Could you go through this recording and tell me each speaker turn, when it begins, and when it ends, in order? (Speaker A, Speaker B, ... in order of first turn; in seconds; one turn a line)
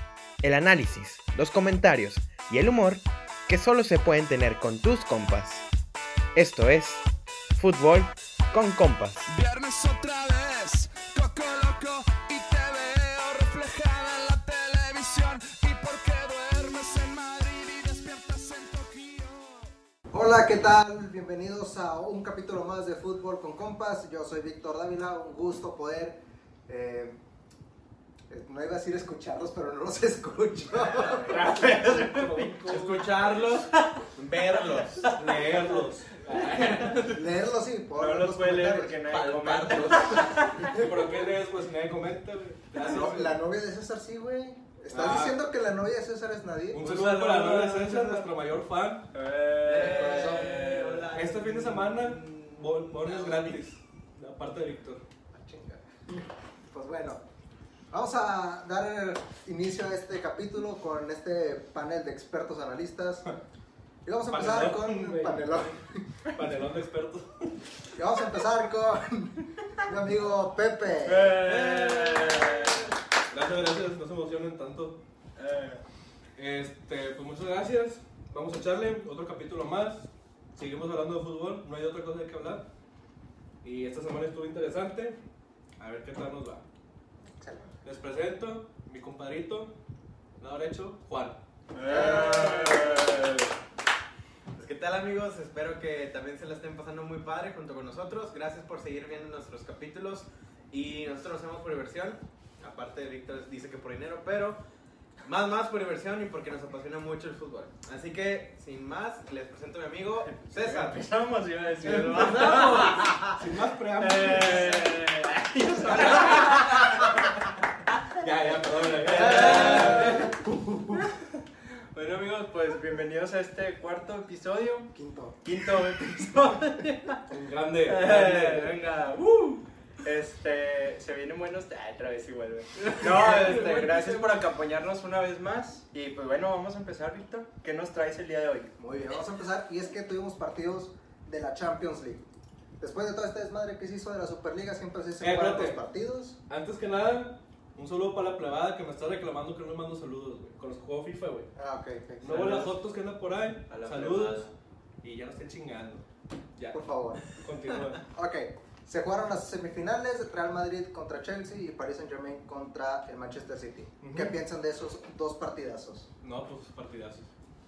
Speaker A: 0.4-5.7
Speaker A: 6.3-7.0
Speaker A: 7.6-9.3
Speaker B: 9.3-19.7
Speaker C: 20.1-27.2
Speaker C: 28.3-31.8
Speaker D: 30.8-31.3
Speaker E: 31.2-33.1
Speaker F: 31.3-32.6
Speaker D: 32.7-35.2
Speaker E: 35.1-37.0
Speaker D: 36.3-37.2
Speaker C: 37.1-39.0
Speaker F: 38.0-40.7
Speaker D: 39.1-40.5
Speaker E: 40.7-43.4
Speaker C: 42.8-46.8
Speaker E: 44.9-45.4
Speaker E: 46.7-49.1
Speaker F: 46.8-48.3
Speaker F: 49.1-51.1
Speaker D: 49.6-53.6
Speaker E: 49.8-55.0
Speaker C: 55.3-57.2
Speaker C: 57.9-63.3
Speaker C: 64.0-66.2
Speaker E: 64.3-65.8
Speaker E: 66.3-67.6
Speaker C: 67.9-71.5
Speaker F: 71.0-72.9
Speaker D: 71.5-72.8
Speaker E: 73.3-75.0
Speaker F: 75.4-75.8
Speaker E: 76.4-82.7
Speaker E: 83.6-85.2
Speaker E: 85.8-86.7
Speaker C: 87.3-87.8
Speaker E: 87.8-89.7
Speaker E: 90.4-91.4
Speaker F: 91.7-93.5
Speaker C: 91.9-92.5
Speaker D: 91.9-93.0
Speaker D: 94.6-104.6
Speaker D: 105.2-111.1
Speaker F: 110.3-113.3
Speaker D: 111.8-113.3
Speaker E: 111.9-114.9
Speaker F: 113.9-117.2
Speaker D: 115.9-116.9
Speaker E: 118.2-120.4
Speaker F: 118.4-121.1
Speaker C: 119.1-120.3
Speaker D: 119.2-119.9
Speaker F: 121.9-124.9
Speaker C: 124.9-126.1
Speaker F: 125.4-127.3
Speaker E: 127.3-128.8
Speaker F: 127.8-138.7
Speaker D: 132.8-134.4
Speaker C: 138.8-142.3
Speaker C: 142.8-146.4
Speaker E: 145.2-145.8
Speaker E: 146.5-151.5
Speaker C: 151.6-152.6
Speaker E: 152.2-154.5
Speaker F: 152.2-152.8
Speaker F: 153.7-154.5
Speaker E: 155.0-156.1
Speaker E: 156.6-158.0
Speaker C: 156.7-157.2
Speaker C: 158.1-166.1
Speaker E: 164.0-164.4
Speaker E: 166.2-167.3